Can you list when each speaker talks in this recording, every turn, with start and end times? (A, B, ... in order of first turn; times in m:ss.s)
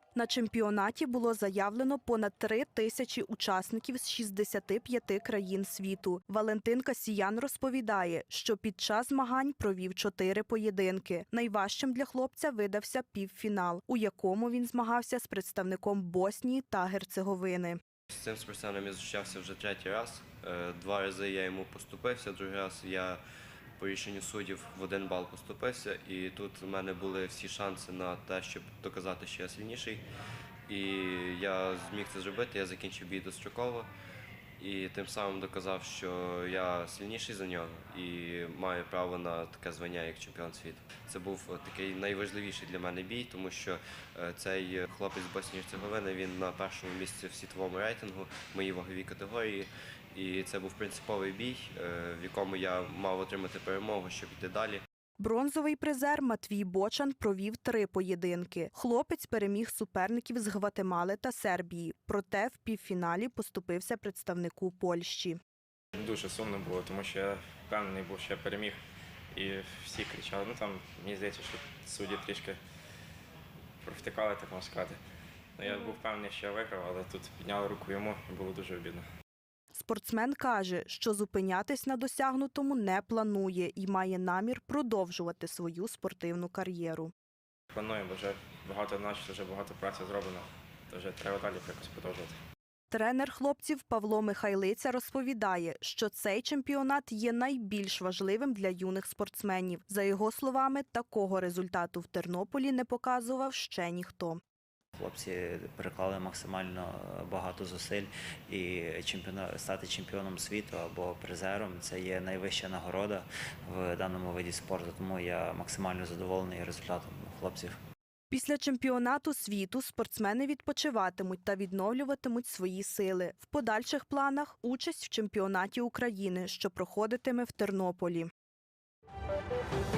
0:00.2-0:17.8 A
0:18.1-0:23.2 B
0:23.8-0:30.0 B
0:30.7-0:33.9 B
0:34.6-0:54.8 B
0:55.2-1:05.4 A
1:05.9-1:08.8 C
1:09.3-1:12.6 C
1:13.8-1:15.0 C
1:15.6-1:19.0 C
1:19.7-1:27.1 A
1:27.7-1:32.4 C
1:32.9-1:44.4 A
1:45.0-1:57.8 D
1:58.3-2:08.3 A